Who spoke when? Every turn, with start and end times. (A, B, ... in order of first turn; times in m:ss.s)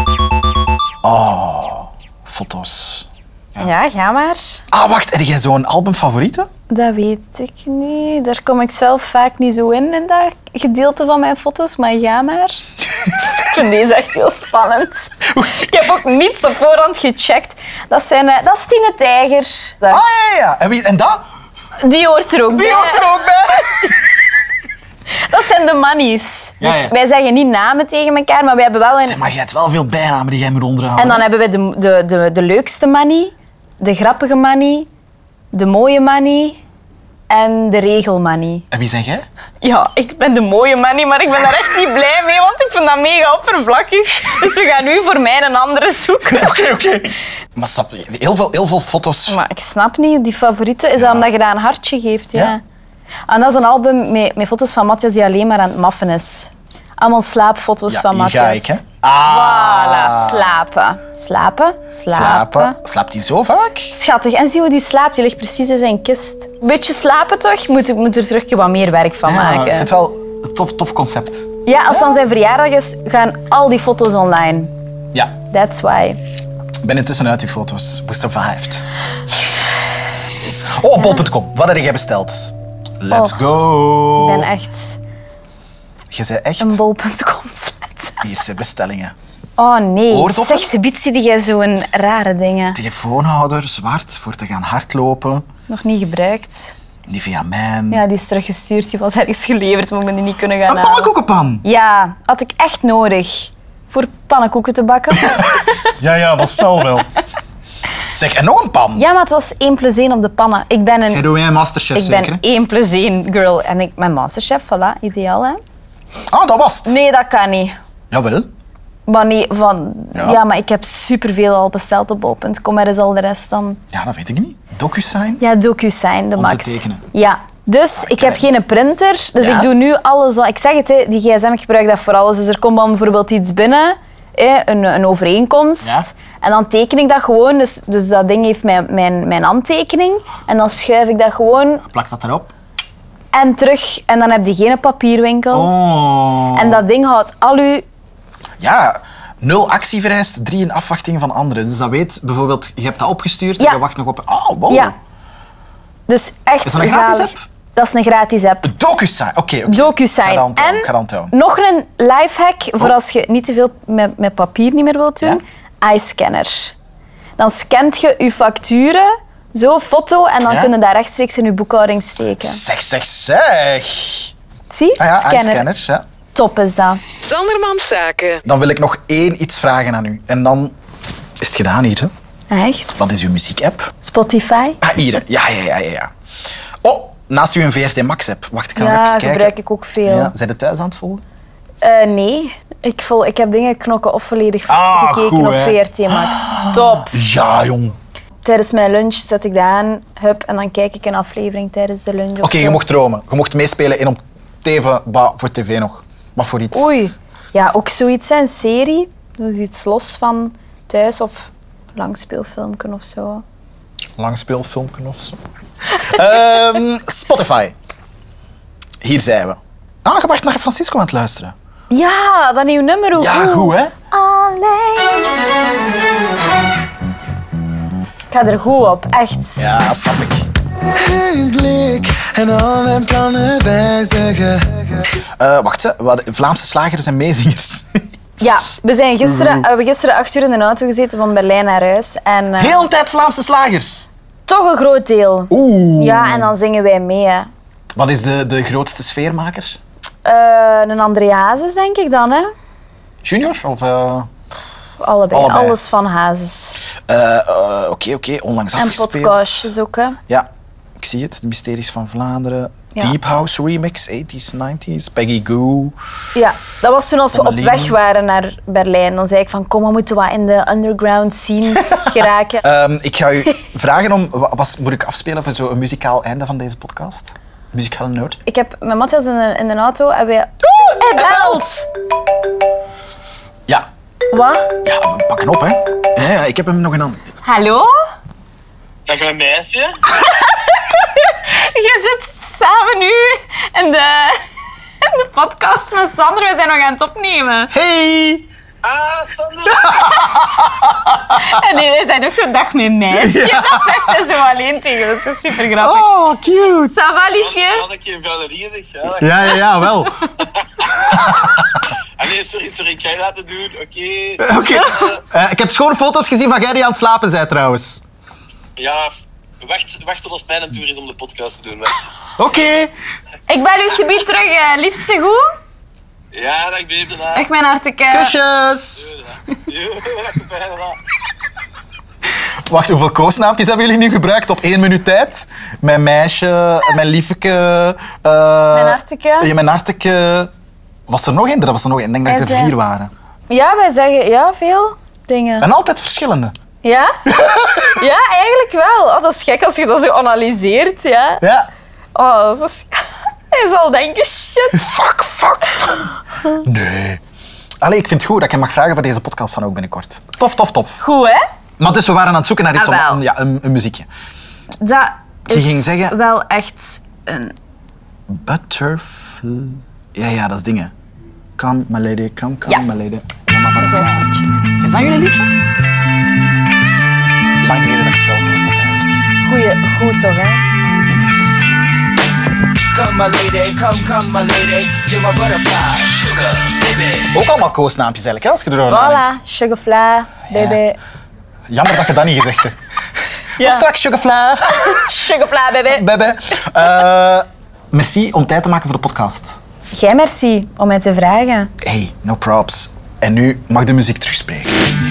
0:01.0-0:03.7 A
0:03.6-0:04.6 B
0:04.7-0:06.5 A
0:06.7-0:20.0 B
0:19.9-0:21.2 A
0:21.8-0:23.1 B
0:22.5-0:23.9 A
0:23.6-0:23.9 B
0:25.2-0:29.2 B
0:26.6-0:26.9 A
0:29.0-0:31.2 A
0:31.0-0:34.9 B
0:35.5-0:36.6 B
0:37.3-0:38.7 B
0:38.7-0:39.3 A
0:39.6-0:46.6 B
0:46.3-0:49.4 A
0:49.3-0:52.6 B
0:51.0-0:51.3 A
0:53.3-1:02.8 B
0:57.9-1:00.6 A
1:02.1-1:03.9 A
1:03.9-1:09.9 B
1:09.2-1:12.1 A
1:11.7-1:14.7 B
1:15.5-1:16.2 B
1:16.8-1:18.9 A
1:20.7-1:24.5 A
1:23.1-1:23.4 B
1:24.2-1:25.0 B
1:26.1-1:26.8 A
1:26.6-1:28.2 B
1:28.2-1:29.1 A
1:29.6-1:32.8 B
1:30.1-1:30.7 A
1:32.7-1:35.5 A
1:35.7-1:36.7 B
1:37.1-1:38.0 A
1:37.9-1:41.1 B
1:40.7-1:41.6 A
1:41.6-1:45.9 B
1:45.1-1:47.1 A
1:48.1-1:49.0 A
1:49.0-1:51.2 B
1:51.1-1:52.4 A
1:51.9-1:55.6 B
1:56.3-1:57.0 A
1:56.8-1:57.8 B
1:58.1-1:58.5 A
1:59.1-2:03.8 B
2:03.9-2:05.4 A
2:05.4-2:21.8 B
2:06.4-2:07.1 A
2:08.0-2:08.5 A
2:09.4-2:09.7 A
2:15.8-2:16.1 A
2:21.9-2:22.5 A
2:23.3-2:25.7 B
2:25.5-2:26.8 A
2:26.5-2:27.8 B
2:28.6-2:35.0 A
2:36.1-2:38.7 B
2:36.6-2:37.4 A
2:38.6-2:41.3 A
2:39.7-2:46.8 B
2:47.4-2:52.6 B
2:50.5-2:50.7 A
2:52.4-2:54.3 A
2:54.7-2:55.7 B
2:55.0-2:56.0 A
2:56.3-2:57.0 B
2:57.2-2:58.4 C
2:58.4-3:00.8 A
3:01.4-3:02.1 A
3:02.5-3:03.0 B
3:03.0-3:03.9 A
3:04.0-3:04.8 B
3:04.8-3:06.1 A
3:06.8-3:11.2 A
3:08.8-3:10.3 B
3:11.8-3:17.2 B
3:14.7-3:18.0 A
3:18.4-3:22.8 B
3:22.4-3:26.9 A
3:26.7-3:33.4 B
3:34.2-3:37.8 A
3:39.0-3:41.5 A
3:41.9-3:45.4 B
3:43.2-3:43.9 A
3:48.3-3:49.6 B
3:49.6-3:50.5 A
3:51.0-3:55.0 D
3:55.4-3:58.0 A
3:58.4-4:02.8 B
3:59.2-3:59.7 A
4:02.6-4:04.1 A
4:04.5-4:07.5 B
4:05.5-4:06.5 A
4:08.0-4:09.8 A
4:10.2-4:12.5 B
4:13.2-4:14.3 A
4:15.0-4:16.8 B
4:15.3-4:15.8 A
4:16.9-4:19.7 A
4:18.8-4:20.2 B
4:20.3-4:26.0 A
4:26.4-4:32.6 B
4:27.3-4:28.0 A
4:31.8-4:32.1 A
4:32.6-4:38.4 A
4:38.5-4:41.8 B
4:40.6-4:41.8 A
4:44.3-4:44.7 B
4:44.8-4:47.5 A
4:47.4-4:47.9 B
4:49.1-4:50.0 E
4:50.2-4:54.4 B
4:55.0-4:57.7 B
4:57.7-4:58.5 A
4:58.8-5:00.1 E
4:59.7-5:01.4 A
5:01.3-5:06.1 B
5:03.1-5:04.2 A
5:05.7-5:07.0 A
5:06.9-5:07.8 B
5:07.2-5:09.6 E
5:09.2-5:10.3 A
5:10.7-5:11.6 E
5:11.1-5:11.8 A
5:12.2-5:15.2 E
5:14.4-5:18.0 A
5:14.7-5:15.1 B
5:18.8-5:22.1 E
5:22.4-5:22.9 A
5:23.5-5:25.5 B
5:26.3-5:27.5 E
5:27.4-5:28.3 B
5:28.1-5:29.2 A
5:29.0-5:31.0 E
5:32.7-5:40.5 A
5:38.7-5:39.5 B
5:41.1-5:43.1 A
5:42.3-5:42.7 B
5:43.5-5:45.7 B
5:45.6-5:46.6 A
5:46.8-5:51.4 B
5:47.3-5:48.0 A
5:51.4-5:51.7 A
5:52.2-5:54.9 B
5:54.7-5:57.2 A
5:57.8-6:01.0 A
6:01.0-6:01.4 B
6:01.8-6:04.1 A
6:02.8-6:03.2 B
6:04.8-6:07.5 B
6:05.5-6:06.2 A
6:08.3-6:10.9 A
6:11.6-6:15.6 A
6:13.8-6:14.5 B
6:17.6-6:19.3 A
6:19.4-6:20.6 B
6:21.1-6:21.5 A
6:22.9-6:27.4 C
6:27.3-6:29.4 A
6:28.9-6:31.0 B
6:30.5-6:30.8 A
6:31.7-6:32.8 A
6:33.6-6:33.9 B
6:33.6-6:35.1 A
6:34.7-6:36.0 B
6:35.9-6:39.6 A
6:39.9-6:41.7 B
6:41.8-6:44.8 A